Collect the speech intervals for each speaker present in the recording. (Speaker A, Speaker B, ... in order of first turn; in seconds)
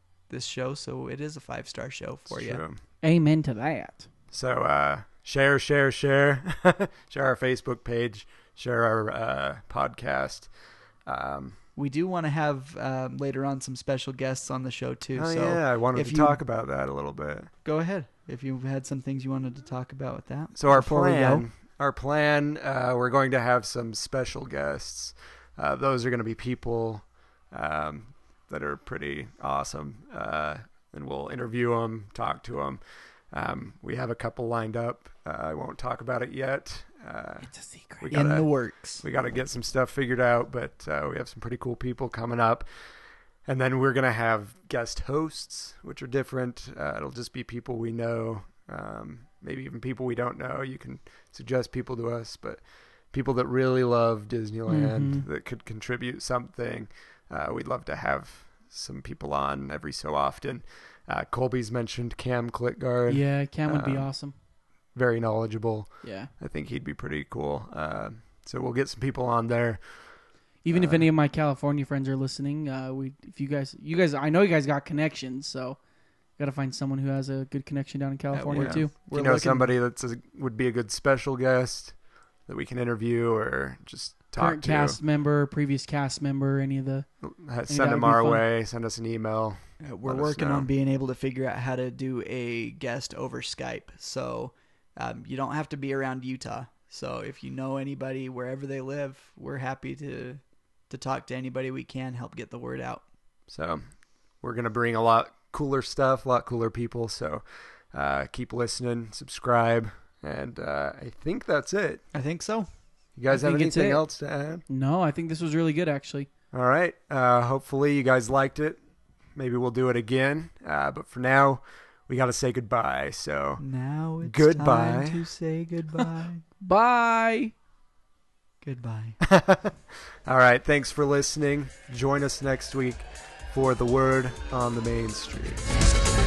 Speaker A: 0.3-2.6, 11.8-16.4, 17.6-21.5, 38.1-39.0, 78.3-79.7, 89.8-103.0, 112.1-112.7, 123.6-126.4, 128.6-129.2
Speaker B: 2.3-2.8, 4.3-10.5, 11.1-11.6, 15.2-17.5, 20.6-42.7, 43.4-64.1, 64.9-71.1, 78.5-85.0, 87.2-90.7, 103.5-103.8, 104.4-112.0, 113.2-114.6, 116.5-118.8, 119.3-123.6, 124.2-125.2, 129.2-135.7
Speaker C: 3.0-4.1, 37.4-38.2, 54.7-55.2, 63.1-64.3, 66.0-66.3, 70.6-75.8, 76.4-79.3, 84.4-87.1, 87.7-88.4, 113.3-114.0, 114.7-116.3, 126.6-127.5